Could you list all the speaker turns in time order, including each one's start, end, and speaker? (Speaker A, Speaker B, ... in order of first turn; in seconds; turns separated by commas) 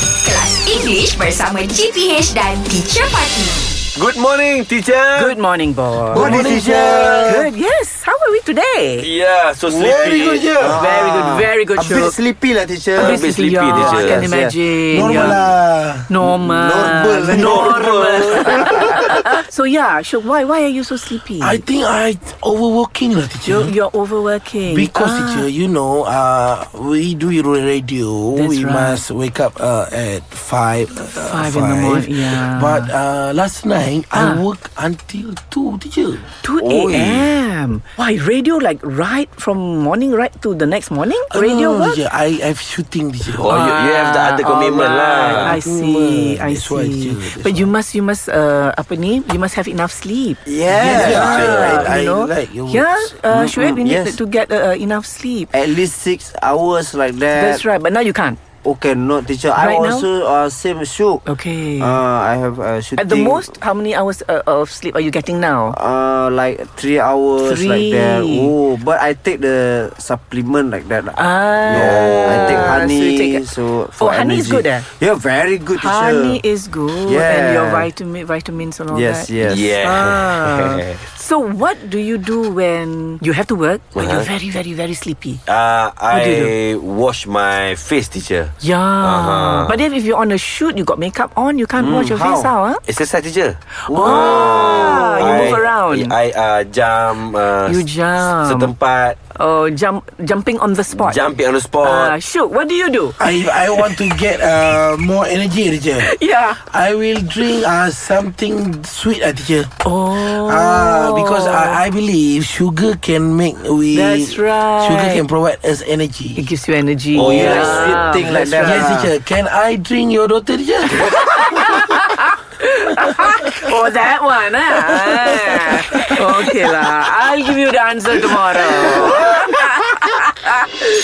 Speaker A: 0.2-3.6, Speaker B: 4.0-5.3, Speaker C: 5.2-6.5, Speaker D: 6.1-7.5, Speaker E: 6.1-7.4, Speaker B: 7.0-7.3, Speaker C: 7.2-9.1, Speaker B: 9.0-10.6, Speaker D: 9.7-10.8, Speaker E: 10.6-15.5, Speaker C: 10.8-12.2, Speaker B: 12.9-14.3, Speaker C: 12.9-15.4, Speaker D: 14.9-16.1, Speaker C: 16.1-21.6, Speaker E: 16.2-17.9, Speaker D: 17.3-18.4, Speaker B: 17.4-18.7, Speaker D: 21.4-23.7, Speaker C: 23.5-25.5, Speaker D: 24.7-36.3, Speaker C: 28.3-29.0, Speaker C: 31.1-32.9, Speaker C: 34.1-34.4, Speaker C: 36.4-42.0, Speaker B: 36.6-37.3, Speaker D: 41.3-43.6, Speaker B: 43.3-45.6, Speaker C: 43.5-55.5, Speaker D: 45.3-47.7, Speaker B: 50.5-51.6, Speaker E: 50.5-52.1, Speaker D: 50.7-53.2, Speaker E: 53.3-54.2, Speaker E: 55.5-57.6, Speaker C: 57.3-58.4, Speaker E: 58.6-61.2, Speaker C: 59.6-60.1, Speaker C: 61.3-62.0, Speaker E: 61.8-63.5, Speaker C: 63.0-65.8, Speaker E: 65.7-76.4, Speaker C: 67.4-68.5, Speaker C: 71.2-74.9, Speaker B: 71.7-72.8, Speaker C: 75.8-85.4, Speaker E: 77.1-77.9, Speaker E: 78.9-79.8, Speaker B: 79.4-81.0, Speaker B: 84.0-84.3, Speaker B: 85.5-89.8, Speaker C: 86.1-86.5, Speaker C: 88.6-92.8, Speaker E: 91.8-92.5, Speaker B: 92.9-99.2, Speaker C: 93.8-96.2, Speaker C: 97.7-98.7, Speaker C: 99.3-101.2, Speaker B: 101.0-102.2, Speaker C: 101.8-104.2, Speaker D: 103.2-116.4, Speaker C: 106.0-106.6, Speaker C: 109.8-111.8, Speaker C: 113.9-115.2, Speaker C: 116.3-118.9, Speaker B: 117.1-118.1, Speaker E: 117.1-119.1, Speaker D: 118.2-121.8, Speaker C: 120.9-130.7